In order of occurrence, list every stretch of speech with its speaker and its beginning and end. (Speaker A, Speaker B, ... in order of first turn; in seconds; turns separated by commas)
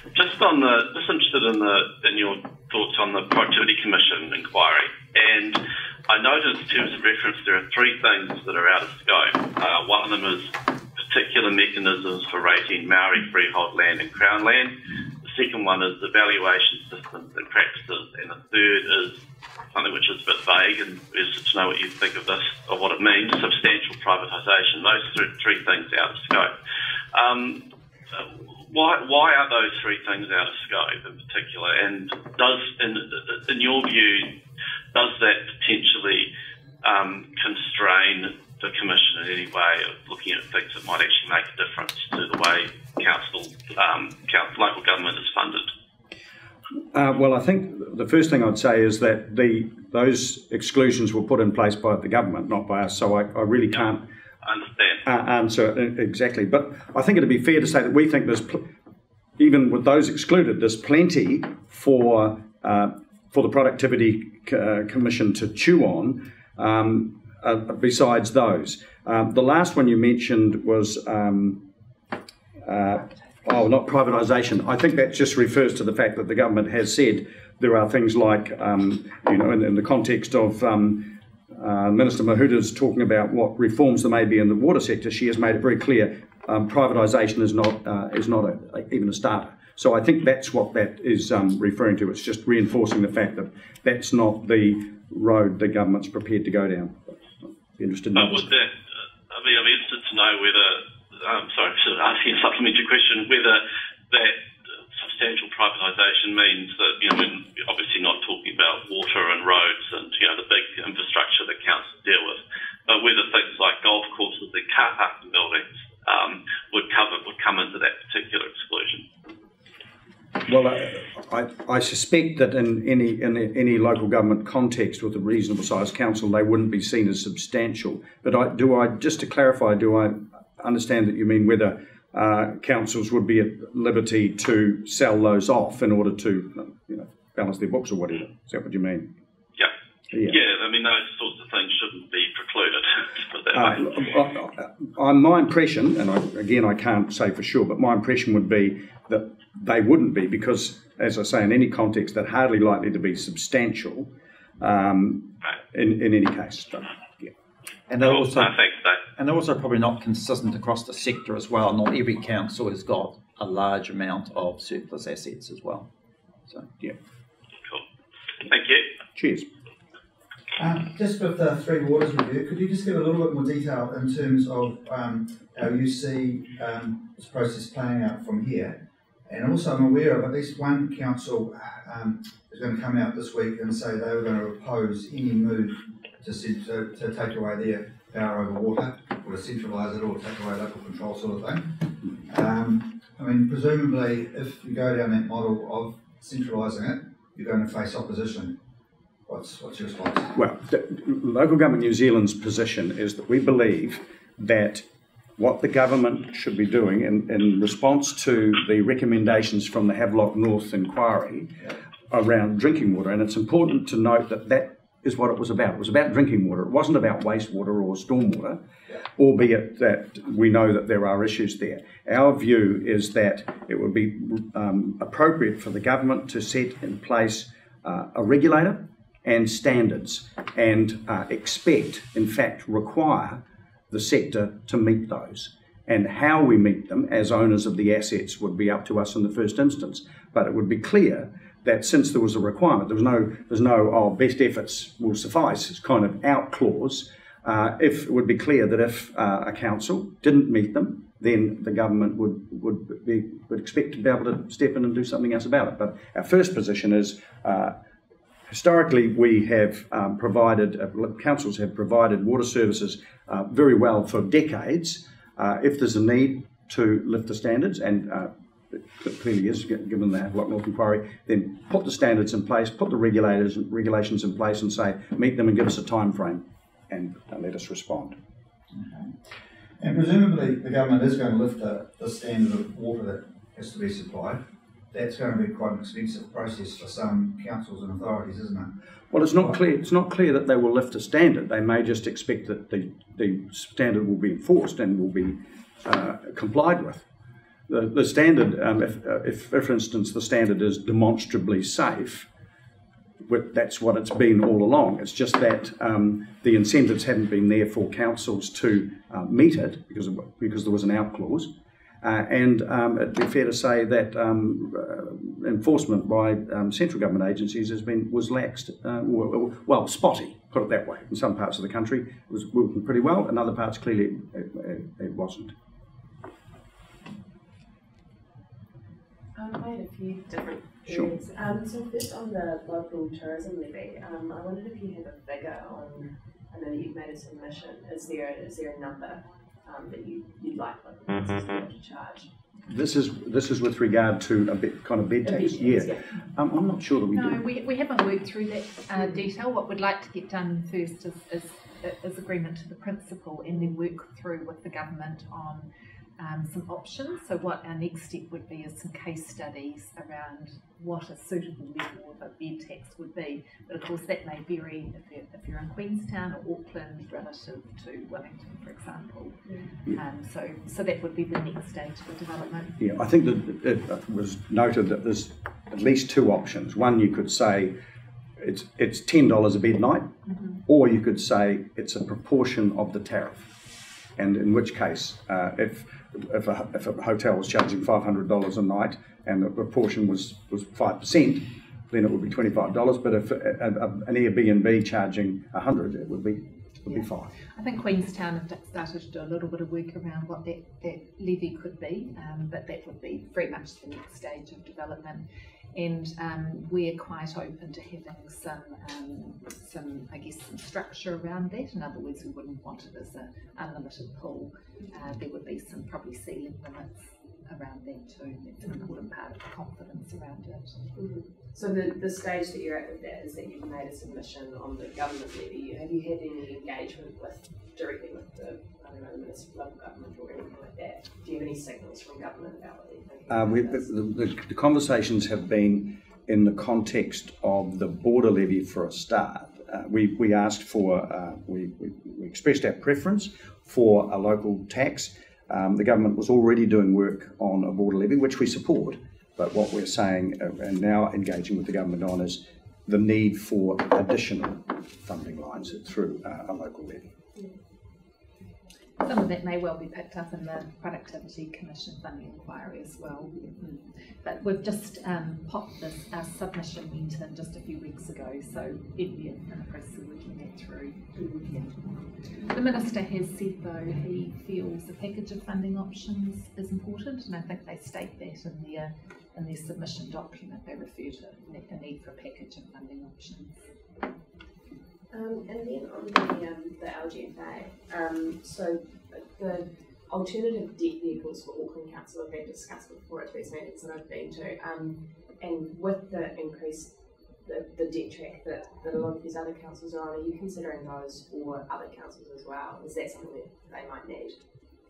Speaker A: 0.1-19.2, Speaker A: 19.7-26.5, Speaker A: 27.1-27.6, Speaker A: 28.1-34.3, Speaker A: 34.9-36.3, Speaker A: 36.8-45.7, Speaker B: 46.9-54.0, Speaker A: 54.4-55.0, Speaker B: 55.0-58.6, Speaker B: 59.4-71.6, Speaker B: 72.6-98.5, Speaker A: 98.1-98.7, Speaker A: 99.3-104.4, Speaker A: 105.0-119.0, Speaker B: 120.5-139.1, Speaker B: 140.1-140.4, Speaker A: 140.3-143.8, Speaker B: 143.5-157.3, Speaker C: 157.9-158.5, Speaker A: 158.0-159.0, Speaker C: 159.2-165.9, Speaker A: 168.4-168.9, Speaker B: 169.1-169.4, Speaker D: 170.6-198.6, Speaker D: 199.3-200.3, Speaker B: 200.3-204.8, Speaker B: 205.4-218.6, Speaker B: 219.2-257.7, Speaker B: 258.5-278.2, Speaker D: 278.7-279.2, Speaker D: 279.8-284.4, Speaker D: 284.9-288.7, Speaker B: 289.1-297.1, Speaker B: 297.7-302.3, Speaker B: 303.3-311.5, Speaker B: 312.0-325.5, Speaker E: 329.4-342.3, Speaker B: 342.7-347.4, Speaker E: 345.2-346.0, Speaker F: 347.1-355.7, Speaker F: 356.2-372.8, Speaker E: 369.4-369.7, Speaker B: 372.8-377.8, Speaker B: 378.4-380.1, Speaker B: 380.7-383.5, Speaker B: 384.2-397.3, Speaker F: 396.9-420.9, Speaker E: 420.9-433.9, Speaker B: 433.3-457.1, Speaker F: 459.0-471.9, Speaker E: 471.1-471.5, Speaker F: 472.4-483.7, Speaker E: 485.1-504.4